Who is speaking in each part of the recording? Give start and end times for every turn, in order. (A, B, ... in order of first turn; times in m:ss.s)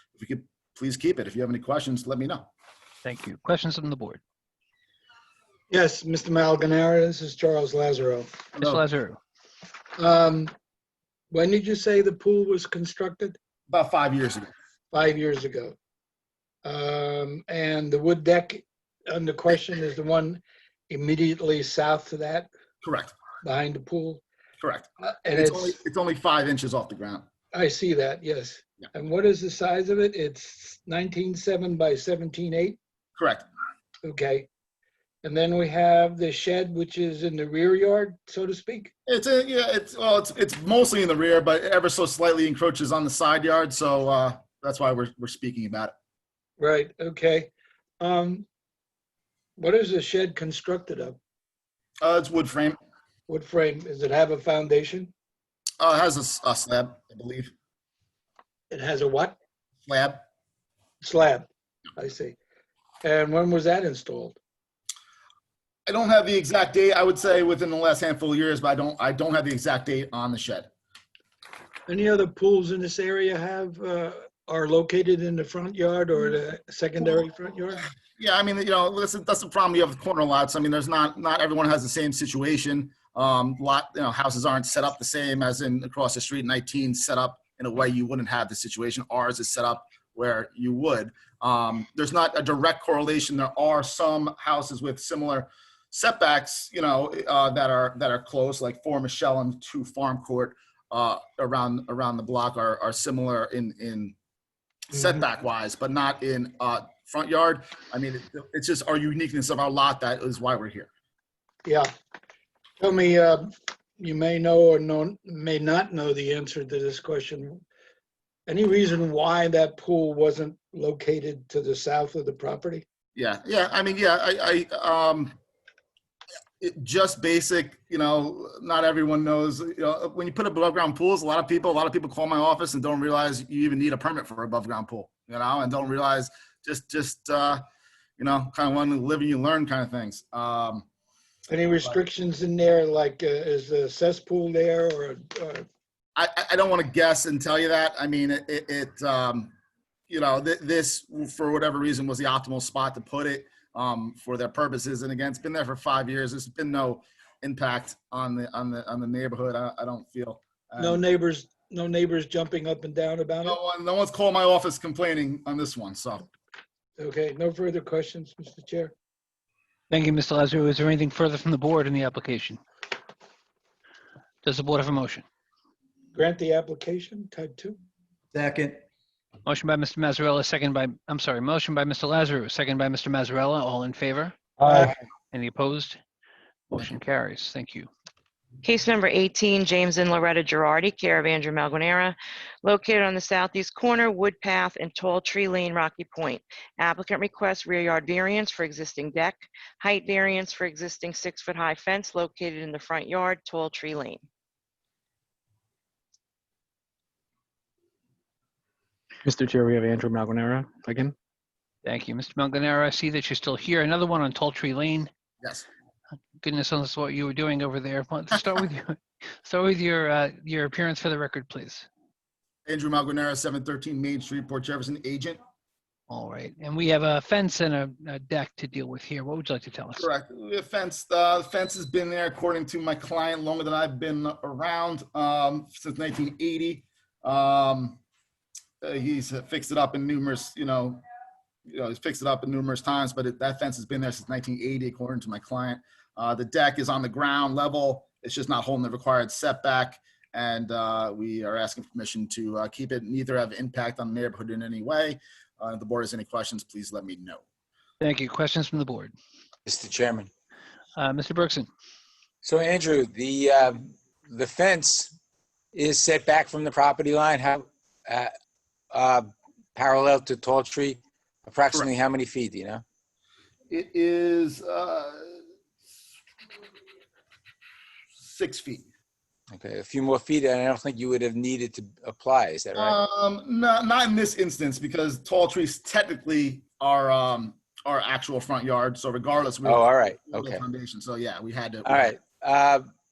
0:00.2-0:02.5 A
0:03.0-0:04.2 B
0:05.7-0:08.5 C
0:08.6-0:09.2 B
0:10.0-0:10.5 C
0:11.3-0:13.4 C
0:13.7-0:14.5 A
0:14.9-0:15.8 C
0:16.6-0:22.5 C
0:22.8-0:23.2 A
0:23.4-0:24.2 C
0:24.6-0:27.2 A
0:25.0-0:25.8 C
0:27.5-0:32.8 C
0:33.2-0:33.4 A
0:34.0-0:34.5 C
0:35.2-0:38.9 C
0:39.0-0:45.9 A
0:46.6-0:48.4 C
0:49.6-0:51.2 C
0:52.0-0:52.8 A
0:53.3-0:55.1 C
0:55.8-0:57.5 A
0:58.7-0:59.4 C
0:59.8-1:00.2 A
1:01.0-1:02.4 C
1:03.0-1:04.4 C
1:05.9-1:10.7 A
1:11.9-1:17.9 C
1:18.2-1:44.1 A
1:44.9-1:50.9 A
1:51.6-1:51.9 C
1:52.8-1:57.6 C
1:58.5-2:02.8 C
2:03.2-2:05.4 A
2:06.6-2:17.6 A
2:18.2-2:20.8 A
2:21.5-2:25.6 C
2:26.2-2:29.5 A
2:30.1-2:41.0 A
2:40.8-2:43.6 C
2:43.4-2:46.3 A
2:47.0-2:48.9 C
2:49.9-2:52.6 B
2:54.4-2:55.2 B
2:56.1-2:57.8 C
2:58.3-2:58.8 D
2:59.4-3:04.3 B
3:04.6-3:04.9 C
3:05.3-3:06.0 B
3:06.7-3:07.9 B
3:08.6-3:24.2 E
3:29.2-3:31.1 D
3:31.8-3:35.1 B
3:36.4-3:41.9 B
3:42.6-3:45.4 A
3:46.1-3:50.1 B
3:50.0-3:58.0 A
3:58.8-4:01.0 A
4:01.7-4:17.4 A
4:18.0-4:19.1 B
4:19.6-4:20.3 F
4:21.0-4:21.7 B
4:22.4-4:25.1 F
4:25.7-4:28.3 F
4:28.9-4:32.8 F
4:33.7-4:35.4 A
4:38.2-4:38.9 A
4:39.5-4:43.0 F
4:42.7-4:52.1 A
4:49.6-4:50.6 F
4:51.8-4:52.9 F